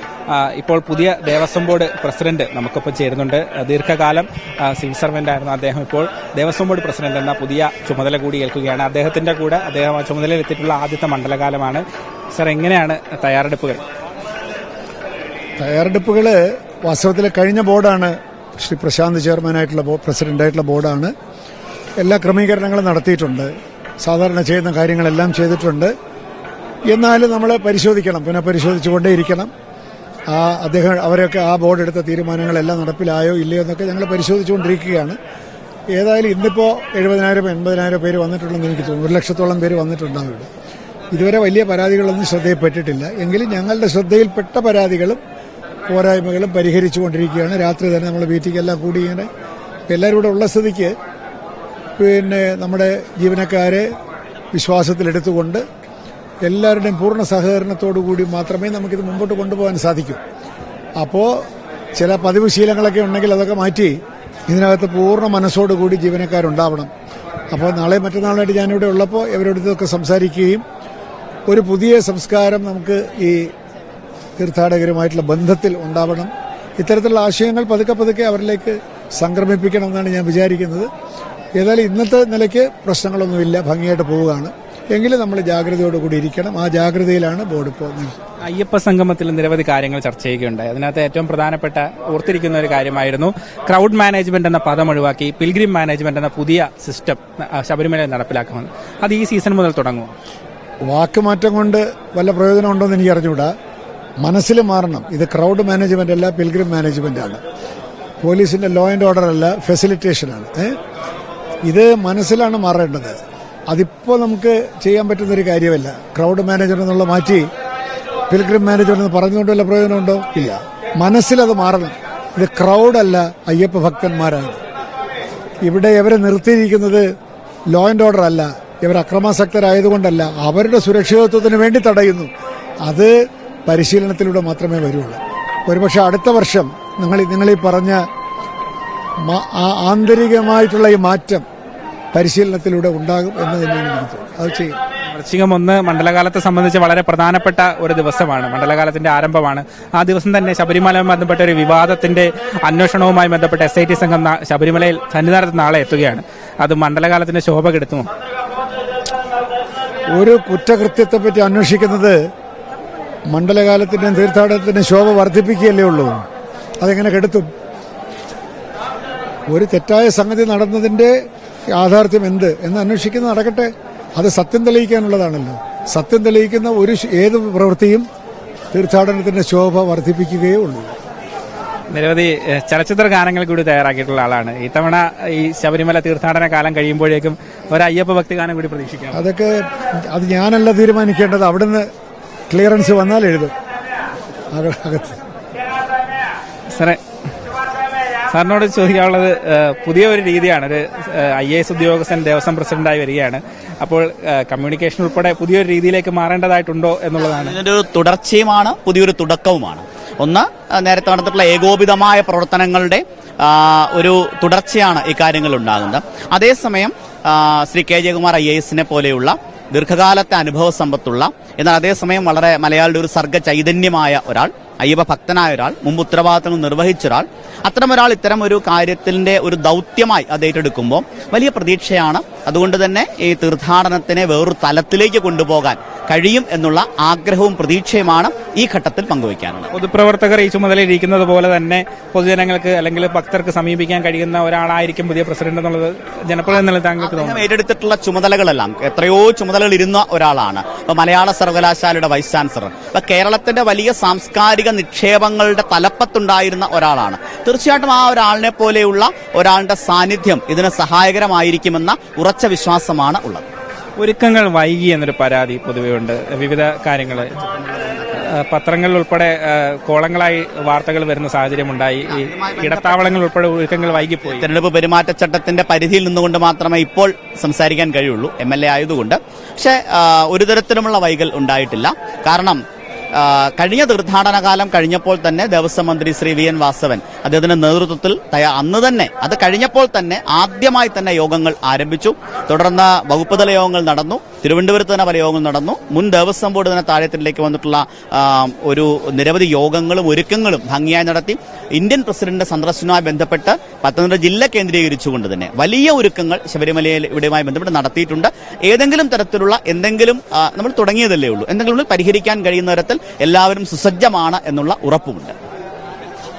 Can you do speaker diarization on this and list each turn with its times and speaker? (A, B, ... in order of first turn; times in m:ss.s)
0:00.3-0:13.8 A
0:15.6-0:21.1 B
0:22.0-0:23.5 B
0:24.0-0:25.9 B
0:26.9-0:29.5 B
0:30.3-0:35.2 B
0:35.9-0:40.5 B
0:41.1-0:45.2 B
0:45.9-0:49.3 B
0:49.9-0:50.9 B
0:52.0-0:53.9 B
0:54.5-0:55.6 B
0:56.4-1:00.2 B
1:01.0-1:01.4 B
1:02.0-1:04.0 B
1:04.5-1:06.9 B
1:07.5-1:10.6 B
1:11.5-1:13.5 B
1:14.4-1:20.9 B
1:21.6-1:28.1 B
1:28.5-1:40.2 A
1:40.9-1:43.5 B
1:44.2-1:47.4 B
1:48.2-1:50.8 B
1:51.7-1:53.2 B
1:53.7-1:57.5 B
1:58.3-2:04.6 B
2:05.6-2:07.1 B
2:07.7-2:12.3 B
2:12.8-2:13.1 B
2:13.7-2:18.0 B
2:19.3-2:21.4 B
2:22.1-2:24.8 B
2:25.1-2:38.1 A
2:40.1-2:42.2 B
2:43.3-2:46.2 B
2:46.8-2:47.5 B
2:49.5-2:51.1 B
2:51.7-2:58.1 B
2:58.7-3:01.0 B
3:01.9-3:09.2 A
3:09.1-3:11.9 B
3:12.5-3:13.5 B
3:14.5-3:15.2 B
3:16.7-3:17.0 A
3:18.3-3:27.6 A
3:27.2-3:59.7 C
3:59.7-4:07.4 A
4:07.0-4:23.5 C
4:24.0-4:27.3 A
4:27.3-4:28.1 C
4:28.2-4:34.5 A
4:32.1-4:33.2 C
4:34.3-4:42.6 C
4:43.1-5:15.4 C